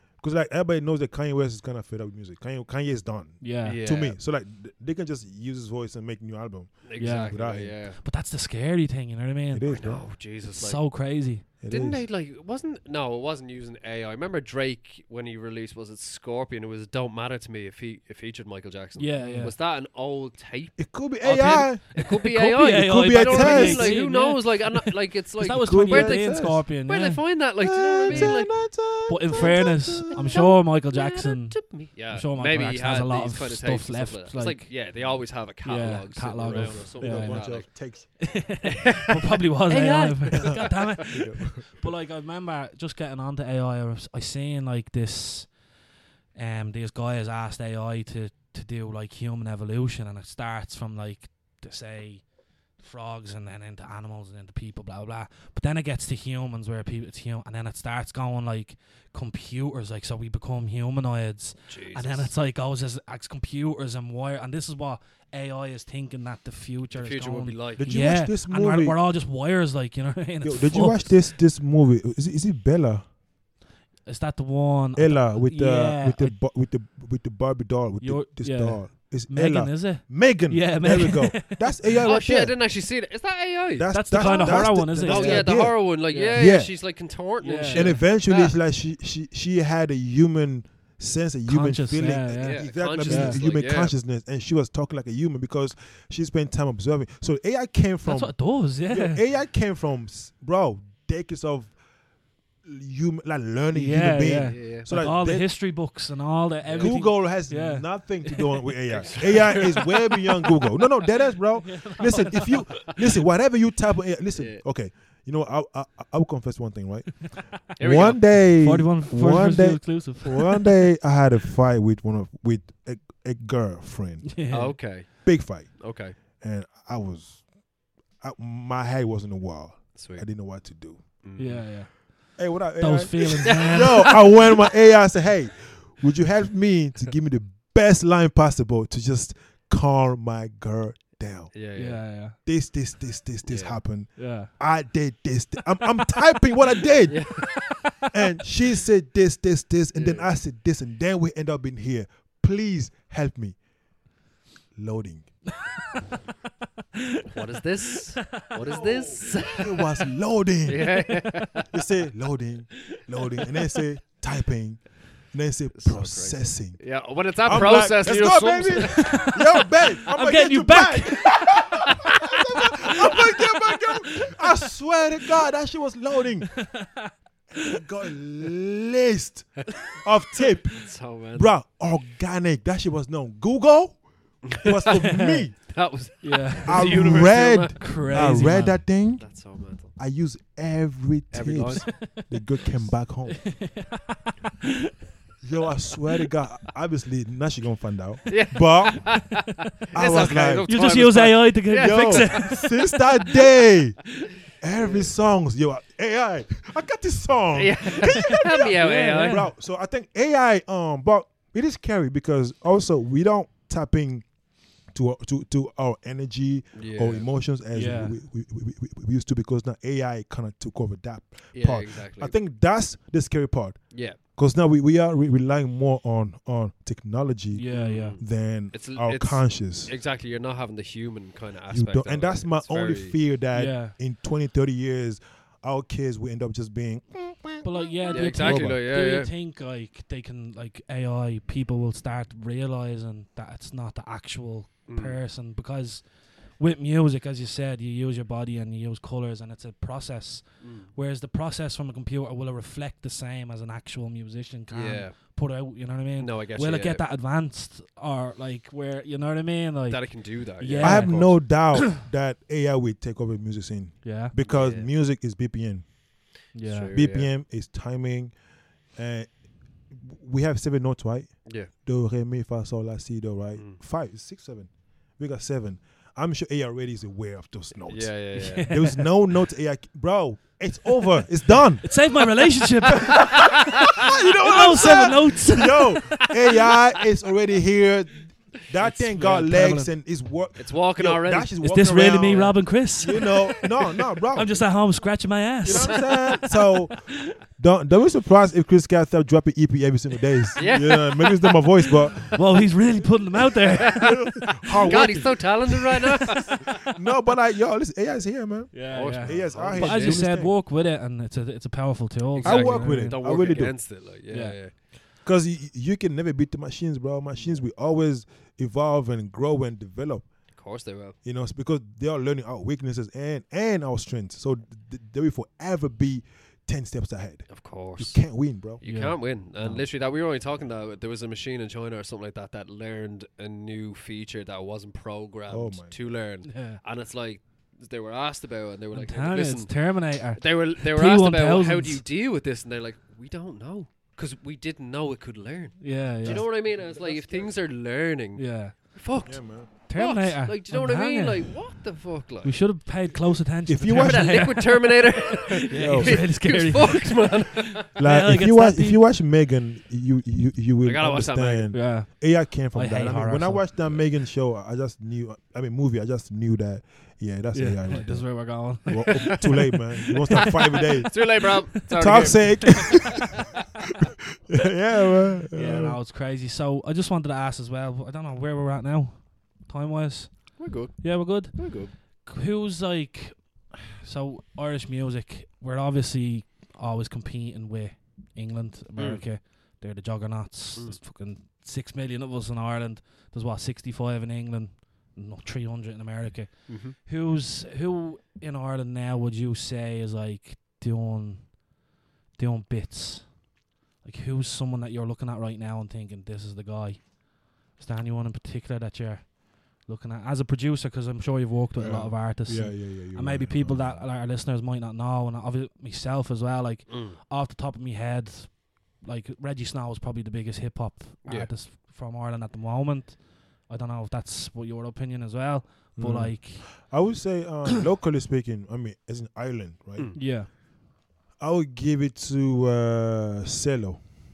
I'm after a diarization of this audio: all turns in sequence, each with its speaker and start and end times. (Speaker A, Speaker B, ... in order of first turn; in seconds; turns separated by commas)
Speaker A: 0.2-7.8, Speaker B: 3.4-3.8, Speaker C: 3.6-4.2, Speaker C: 6.8-8.0, Speaker B: 7.0-7.3, Speaker B: 8.0-9.7, Speaker A: 9.5-10.0, Speaker C: 9.7-10.8, Speaker B: 10.5-11.5, Speaker A: 11.6-12.1, Speaker C: 11.7-28.6, Speaker B: 19.0-19.5, Speaker A: 19.2-19.5, Speaker A: 20.8-24.0, Speaker B: 21.5-27.2, Speaker A: 25.5-26.7, Speaker A: 27.6-30.4, Speaker B: 28.1-28.4, Speaker B: 29.1-31.6, Speaker C: 29.3-37.7, Speaker B: 32.1-34.7, Speaker B: 35.6-37.5, Speaker A: 36.5-38.1, Speaker B: 38.2-45.5, Speaker C: 38.6-41.0, Speaker A: 41.1-41.9, Speaker B: 46.4-52.2, Speaker B: 52.8-71.2, Speaker C: 61.7-62.3, Speaker C: 66.9-68.0, Speaker A: 67.8-69.0, Speaker A: 70.4-73.1, Speaker B: 74.1-76.3, Speaker A: 75.0-82.6, Speaker B: 78.0-82.0, Speaker C: 82.0-88.5, Speaker A: 83.8-86.8, Speaker B: 83.9-86.4, Speaker B: 87.4-88.0, Speaker A: 87.7-101.7, Speaker B: 91.5-93.4, Speaker C: 92.4-93.9, Speaker B: 98.0-99.2, Speaker A: 102.6-105.5, Speaker B: 103.7-108.5, Speaker C: 104.5-104.9, Speaker C: 106.7-107.0, Speaker A: 106.8-124.3, Speaker C: 108.9-110.5, Speaker B: 111.6-112.9, Speaker C: 114.3-114.6, Speaker C: 117.8-118.3, Speaker B: 118.6-120.9, Speaker B: 124.2-124.8, Speaker C: 124.5-126.2, Speaker A: 125.2-125.8, Speaker A: 126.4-127.4, Speaker A: 128.2-131.0, Speaker C: 129.9-130.2, Speaker C: 131.2-131.8, Speaker B: 131.4-134.2, Speaker A: 132.4-141.5, Speaker C: 133.5-134.7, Speaker C: 141.5-142.1, Speaker B: 141.8-142.4, Speaker A: 142.4-147.5, Speaker C: 143.5-143.8, Speaker B: 144.2-144.5, Speaker C: 147.1-147.8, Speaker B: 147.6-148.1, Speaker A: 148.1-153.6, Speaker C: 149.9-150.3, Speaker A: 154.8-155.3, Speaker B: 155.6-156.0, Speaker B: 157.0-158.8, Speaker C: 157.3-159.8, Speaker A: 158.6-164.8, Speaker C: 160.7-161.7, Speaker B: 160.9-161.3, Speaker B: 162.9-163.7, Speaker A: 165.3-166.8, Speaker C: 165.8-169.3, Speaker A: 167.4-176.6, Speaker B: 168.8-174.3, Speaker B: 176.5-177.7, Speaker A: 177.6-180.8, Speaker C: 180.7-181.5, Speaker A: 181.3-185.6, Speaker C: 184.4-188.5, Speaker B: 184.8-185.5, Speaker B: 186.2-188.8, Speaker A: 186.7-189.2, Speaker C: 189.2-189.9, Speaker A: 190.0-193.7, Speaker C: 191.3-192.8, Speaker B: 191.8-192.3, Speaker B: 193.4-194.8, Speaker A: 195.4-199.3, Speaker C: 198.3-202.6, Speaker A: 199.9-200.7, Speaker B: 200.7-202.8, Speaker A: 201.8-214.3, Speaker C: 204.8-205.1, Speaker C: 207.5-209.4, Speaker B: 208.1-209.5, Speaker A: 214.9-229.9, Speaker C: 216.8-217.3, Speaker B: 217.7-218.2, Speaker C: 221.5-222.3, Speaker C: 223.9-224.2, Speaker B: 227.6-228.2, Speaker C: 227.7-233.2, Speaker A: 231.7-238.8, Speaker B: 233.5-233.9, Speaker B: 237.6-246.1, Speaker C: 238.1-239.3, Speaker C: 244.9-245.2, Speaker B: 246.6-262.0, Speaker C: 250.6-250.9, Speaker C: 254.7-255.2, Speaker C: 256.2-257.0, Speaker C: 259.9-261.4, Speaker A: 260.8-265.9, Speaker B: 264.0-264.3, Speaker C: 264.4-264.9, Speaker B: 266.5-266.9, Speaker C: 266.6-267.3, Speaker A: 266.9-268.3, Speaker A: 268.9-269.3, Speaker A: 269.9-282.0, Speaker C: 271.5-271.7, Speaker C: 277.9-278.8, Speaker B: 278.3-279.1, Speaker B: 281.8-283.3, Speaker A: 282.9-294.6, Speaker C: 283.3-285.2, Speaker B: 284.4-286.2, Speaker C: 286.2-286.8, Speaker B: 288.8-289.9, Speaker C: 290.6-291.5, Speaker B: 291.6-293.4, Speaker C: 292.3-292.6, Speaker B: 294.3-296.4, Speaker A: 295.6-297.0, Speaker C: 295.6-296.4, Speaker A: 297.6-302.4, Speaker C: 300.6-301.4, Speaker B: 302.3-305.2, Speaker C: 303.7-304.1, Speaker A: 303.7-310.6, Speaker C: 304.8-306.7, Speaker B: 306.6-306.9, Speaker B: 308.7-313.5, Speaker C: 308.9-310.2, Speaker C: 312.4-314.7, Speaker A: 312.4-313.8, Speaker B: 314.3-314.6, Speaker A: 315.2-320.3, Speaker C: 317.4-317.6, Speaker C: 320.5-321.2, Speaker A: 321.2-328.8, Speaker C: 327.5-328.2, Speaker C: 328.8-352.6, Speaker B: 328.8-329.8, Speaker A: 335.5-336.0, Speaker B: 336.4-336.8, Speaker B: 338.9-342.0, Speaker B: 345.8-346.5, Speaker A: 346.2-347.5, Speaker B: 348.4-348.9, Speaker A: 349.2-349.7, Speaker B: 349.9-351.7, Speaker B: 352.4-354.9, Speaker A: 353.7-354.6, Speaker C: 353.9-357.9, Speaker B: 355.7-359.0, Speaker A: 355.7-356.2, Speaker A: 357.9-373.3, Speaker C: 360.8-361.8, Speaker B: 361.7-363.7, Speaker B: 367.5-371.1, Speaker C: 368.9-369.5, Speaker C: 370.4-373.3, Speaker B: 371.8-372.3, Speaker A: 374.5-376.0, Speaker B: 375.5-401.6, Speaker C: 380.6-381.9, Speaker C: 389.0-389.2, Speaker C: 396.7-397.0, Speaker B: 402.4-403.4, Speaker B: 404.0-426.9, Speaker A: 411.8-414.1, Speaker C: 416.9-417.2, Speaker C: 421.3-421.5, Speaker A: 426.0-430.2, Speaker B: 430.1-430.5, Speaker A: 431.4-434.0